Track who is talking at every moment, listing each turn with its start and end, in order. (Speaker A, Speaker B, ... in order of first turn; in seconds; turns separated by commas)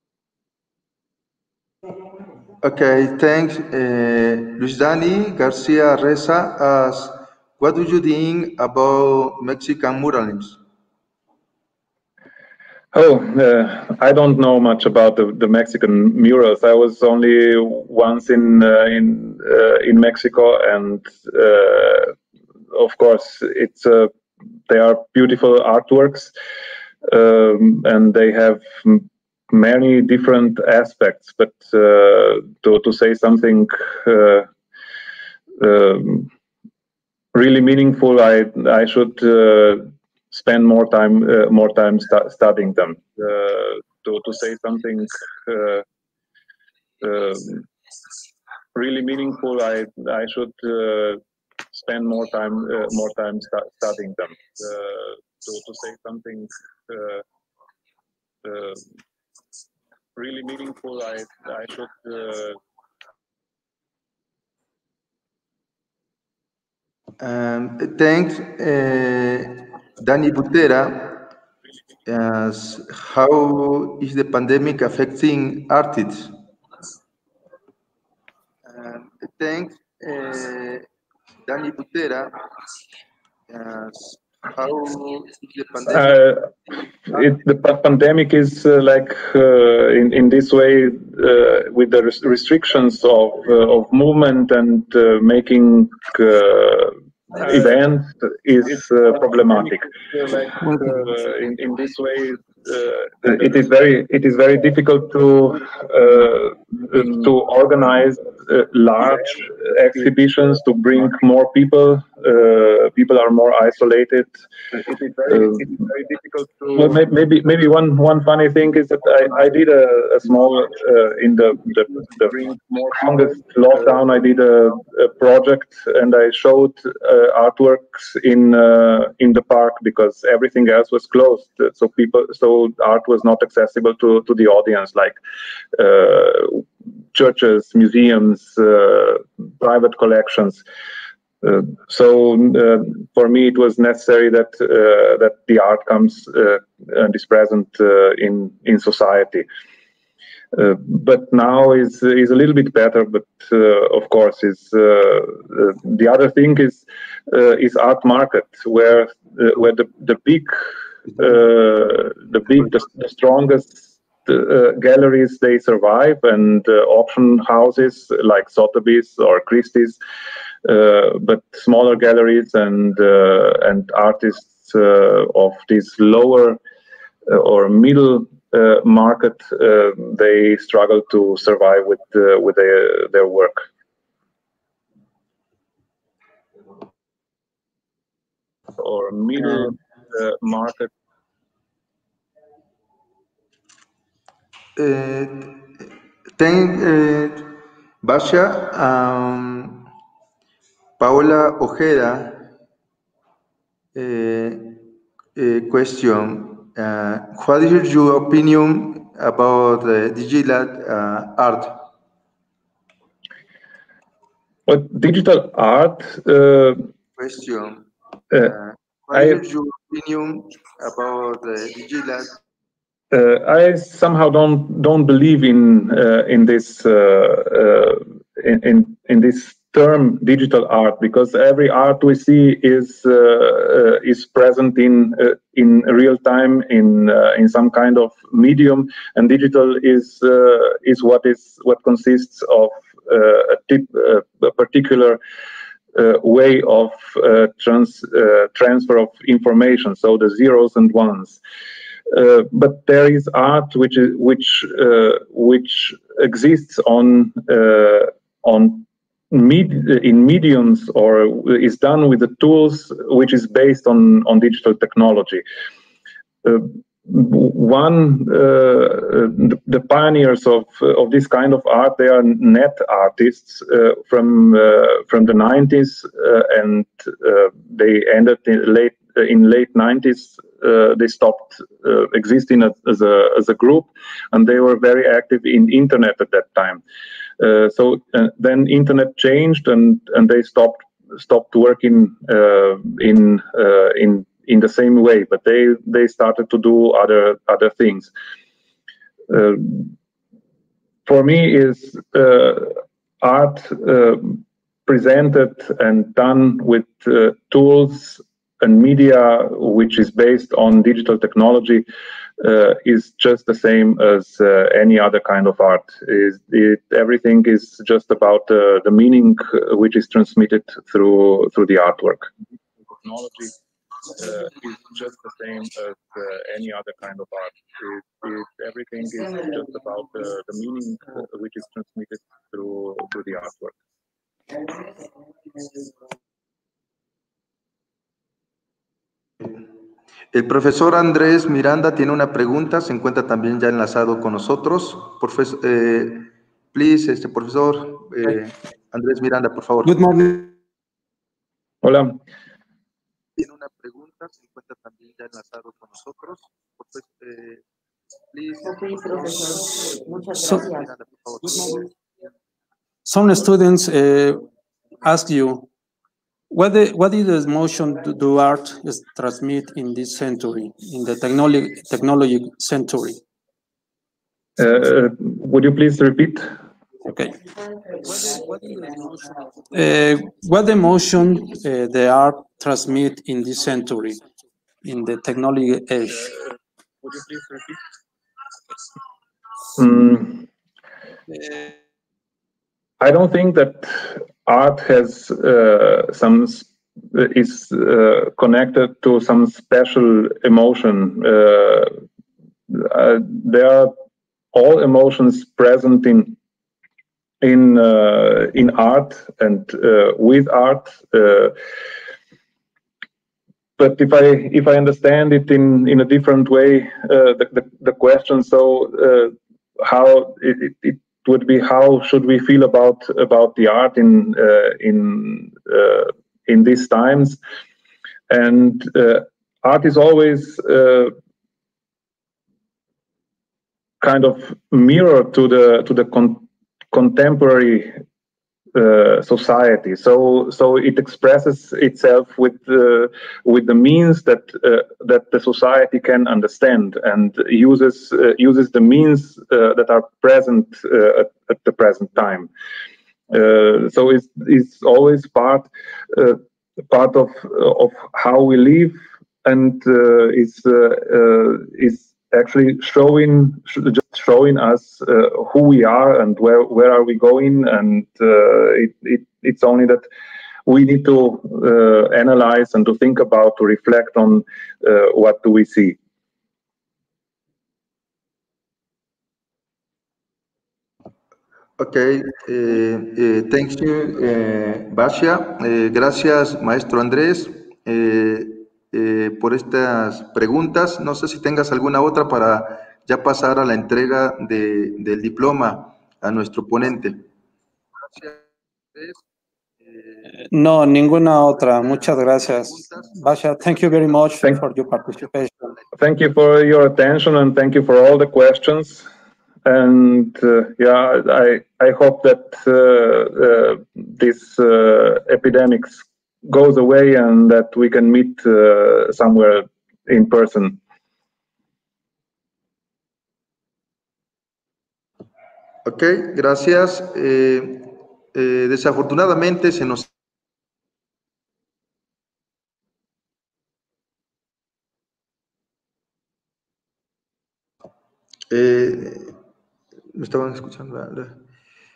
Speaker A: 2.6-10.6, Speaker B: 12.9-22.1, Speaker B: 22.7-24.1, Speaker B: 24.7-26.3, Speaker B: 27.0-34.5, Speaker B: 35.6-36.3, Speaker B: 37.3-45.8, Speaker B: 47.0-47.7, Speaker B: 48.8-51.2, Speaker B: 51.7-57.2, Speaker B: 58.4-58.8, Speaker B: 60.2-62.6, Speaker A: 67.2-71.3, Speaker A: 72.1-76.3, Speaker A: 78.7-80.9, Speaker A: 81.5-82.4, Speaker A: 83.5-86.2, Speaker B: 85.9-86.5, Speaker B: 87.1-135.2, Speaker B: 135.7-140.6, Speaker B: 141.4-149.5, Speaker B: 150.5-160.5, Speaker B: 161.1-170.0, Speaker B: 170.6-176.6, Speaker B: 177.3-183.6, Speaker B: 188.8-190.9, Speaker A: 194.8-195.8, Speaker A: 196.4-199.9, Speaker A: 201.0-202.5, Speaker A: 203.9-204.8, Speaker A: 205.3-211.9, Speaker B: 214.7-216.9, Speaker A: 217.2-222.4, Speaker B: 219.1-219.4, Speaker B: 223.1-245.2, Speaker B: 245.9-251.4, Speaker B: 252.1-265.4, Speaker B: 266.4-286.8, Speaker B: 287.4-298.1, Speaker B: 299.3-299.9, Speaker B: 301.1-311.9, Speaker B: 312.4-322.3, Speaker B: 322.9-323.6, Speaker B: 324.1-333.8, Speaker A: 340.3-350.3, Speaker C: 349.8-350.5, Speaker B: 351.8-352.2, Speaker A: 353.4-357.6, Speaker A: 358.3-358.9, Speaker D: 358.7-360.7, Speaker C: 360.4-360.6, Speaker A: 360.5-361.8, Speaker C: 363.1-364.4, Speaker C: 365.0-365.7, Speaker C: 366.5-373.2, Speaker B: 374.6-376.5, Speaker C: 377.1-377.4, Speaker C: 378.0-384.2, Speaker C: 384.8-386.3, Speaker B: 387.0-387.8, Speaker B: 389.8-390.5, Speaker B: 393.0-401.9, Speaker B: 402.7-403.9, Speaker B: 404.5-406.4, Speaker B: 407.4-411.6, Speaker B: 413.8-427.4, Speaker B: 428.3-431.1, Speaker B: 434.0-437.9, Speaker B: 438.7-452.5, Speaker B: 453.3-470.1, Speaker B: 470.7-476.0, Speaker A: 481.8-497.2, Speaker A: 498.1-498.4, Speaker A: 498.9-499.2, Speaker A: 499.9-500.1, Speaker C: 500.5-505.5, Speaker B: 506.0-509.1, Speaker B: 509.6-520.8, Speaker A: 525.9-530.1, Speaker A: 538.5-539.4, Speaker A: 540.1-541.4